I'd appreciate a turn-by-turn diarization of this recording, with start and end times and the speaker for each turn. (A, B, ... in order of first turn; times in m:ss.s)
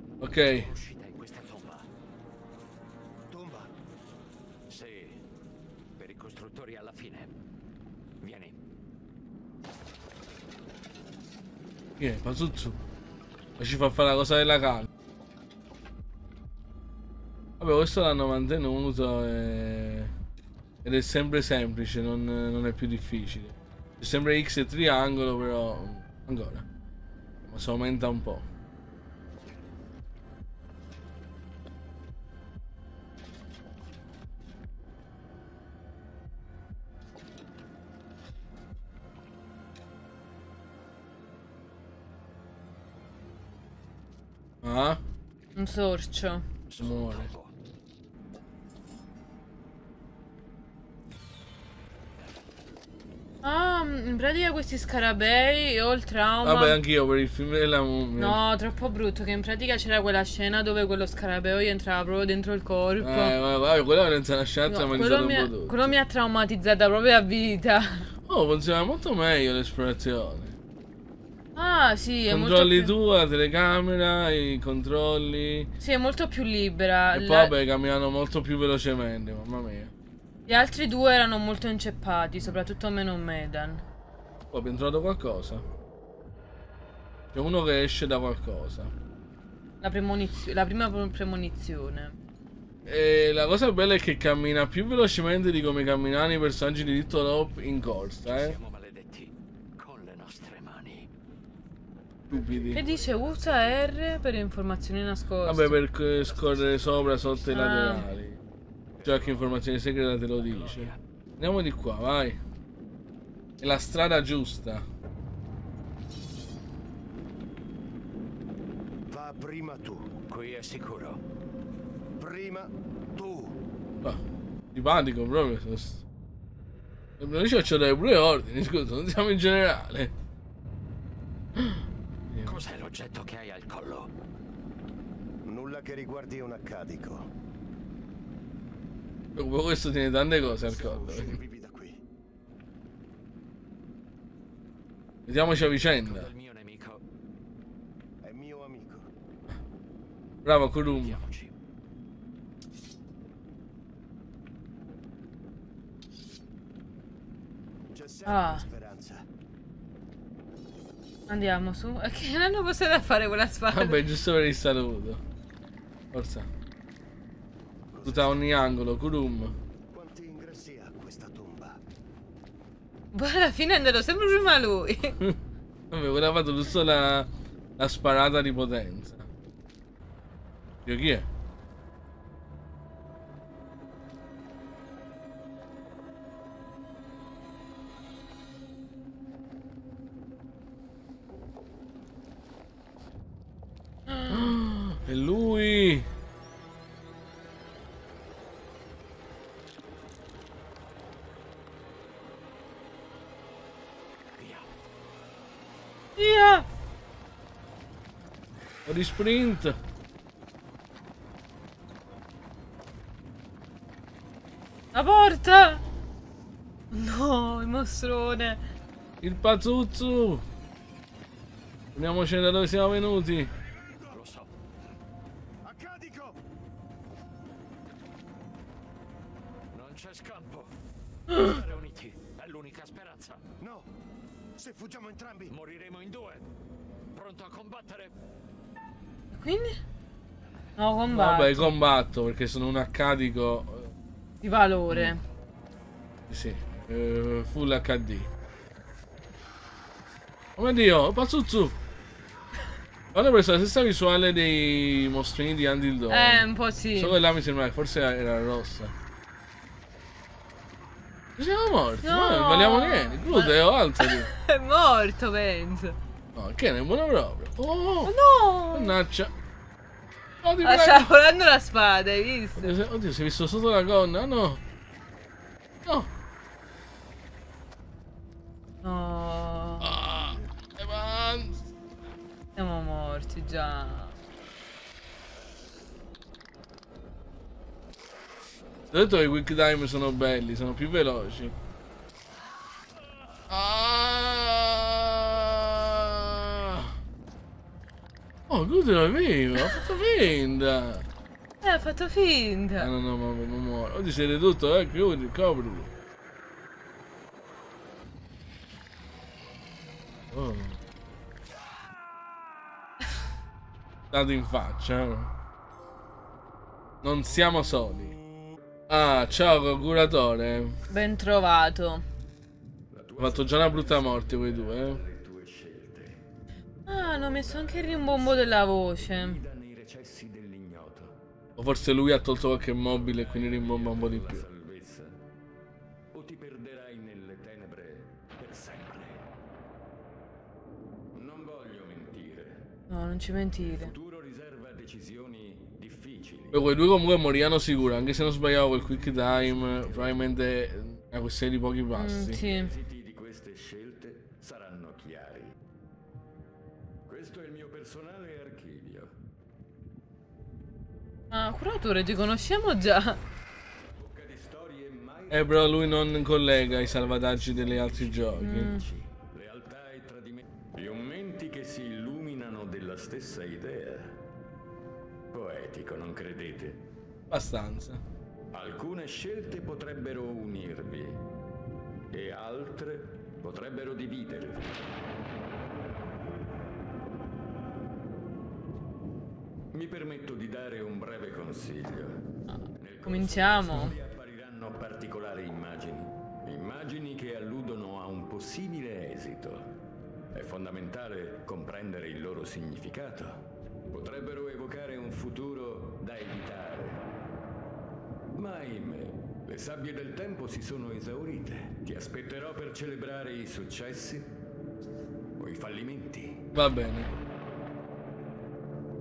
0:00.2-0:00.7 A
0:00.5-0:01.9 B
0:03.3-0:03.7 C
0:04.7-0:05.2 B
0:06.0-0:07.3 B
0:08.2-0:08.6 B
0:12.0-0:12.8 A
0:13.6-0:14.9 A
0:17.6-0:20.1 A
0:20.8-0:26.6 A
0:27.5-0:28.4 A
0:44.6-0:45.0 A
0:45.5-0:46.4 D
0:46.7-0:47.5 B
0:46.8-0:47.3 A
0:53.4-0:56.8 D
0:56.4-0:58.4 A
0:58.2-1:03.3 D
1:03.0-1:05.9 A
1:04.7-1:08.1 D
1:08.3-1:10.6 A
1:11.5-1:12.9 D
1:12.3-1:15.7 A
1:15.8-1:17.5 D
1:17.1-1:19.9 A
1:20.5-1:23.8 D
1:24.5-1:25.6 A
1:27.3-1:28.9 A
1:29.8-1:32.2 D
1:32.9-1:38.6 A
1:38.3-1:41.1 B
1:42.3-1:42.9 A
1:42.7-1:45.8 D
1:45.4-1:48.4 A
1:46.1-1:47.5 B
1:47.5-1:48.1 D
1:49.0-1:52.4 A
1:50.4-1:51.0 B
1:53.6-1:54.8 A
1:59.1-2:00.1 C
2:00.3-2:01.2 B
2:02.2-2:03.6 C
2:04.7-2:06.0 A
2:07.2-2:10.1 A
2:11.6-2:12.6 A
2:12.4-2:14.1 B
2:15.4-2:17.3 C
2:19.4-2:21.4 A
2:20.4-2:22.0 C
2:25.3-2:26.3 A
2:26.0-2:27.0 B
2:28.2-2:29.0 C
2:30.4-2:31.2 A
2:30.8-2:31.5 B
2:37.9-2:39.2 C
2:38.2-2:38.6 D
2:41.3-2:44.0 D
2:43.7-2:45.2 A
2:46.1-2:46.5 A
2:47.9-2:48.5 C
2:48.0-2:49.5 A
2:49.9-2:51.8 C
2:53.1-2:55.2 D
2:55.9-2:59.3 A
3:00.8-3:01.2 A
3:14.3-3:16.1 A
3:24.4-3:24.7 B
3:26.2-3:26.7 D
3:28.8-3:29.8 A
3:34.9-3:35.8 D
3:36.9-3:38.6 D
3:39.2-3:40.4 A
3:41.9-3:43.5 A
3:44.1-3:44.5 B
3:45.6-3:46.4 C
3:49.7-3:50.8 B
3:51.3-3:53.4 B
3:53.6-3:53.9 C
3:54.6-3:55.5 C
3:55.5-3:56.5 B
3:57.1-3:58.1 B
3:59.3-3:59.8 D
4:00.8-4:01.7 D
4:01.1-4:03.9 A
4:04.4-4:05.2 D
4:04.9-4:05.2 A
4:06.3-4:08.3 A
4:10.6-4:11.7 A
4:13.1-4:18.9 A
4:16.1-4:17.2 D
4:21.4-4:24.3 A
4:22.0-4:26.0 D
4:26.3-4:28.1 A
4:28.0-4:29.0 D
4:28.7-4:29.3 A
4:30.4-4:31.1 A
4:30.6-4:32.8 D
4:32.6-4:34.6 A
4:38.8-4:40.0 D
4:39.8-4:41.7 A
4:42.6-4:44.1 D
4:48.9-4:51.5 A
4:53.5-4:56.9 A
4:58.5-5:01.0 A
5:01.6-5:02.9 D
5:02.8-5:05.9 A
5:10.3-5:10.8 A
5:14.1-5:15.3 A
5:17.0-5:18.2 A
5:18.9-5:20.8 A
5:20.9-5:22.0 D
5:22.9-5:26.2 E
5:23.2-5:25.0 A
5:26.8-5:29.4 D
5:26.9-5:31.2 E
5:31.6-5:34.5 A
5:32.8-5:35.2 E
5:36.1-5:39.3 E
5:41.1-5:42.8 E
5:42.9-5:43.9 D
5:43.5-5:46.7 E
5:46.5-5:52.4 A
5:47.5-5:50.4 E
5:51.9-5:52.7 D
5:52.3-5:55.6 E
5:57.0-5:59.1 E
6:01.3-6:03.2 D
6:03.9-6:14.2 E
6:05.3-6:08.8 A
6:08.4-6:08.9 D
6:15.3-6:16.8 E
6:17.3-6:18.0 A
6:18.5-6:21.3 E
6:22.1-6:24.8 E
6:29.7-6:39.8 E
6:33.0-6:34.0 D
6:40.3-6:47.0 E
6:48.3-6:54.4 E
6:55.4-6:56.5 E
6:56.5-6:57.1 A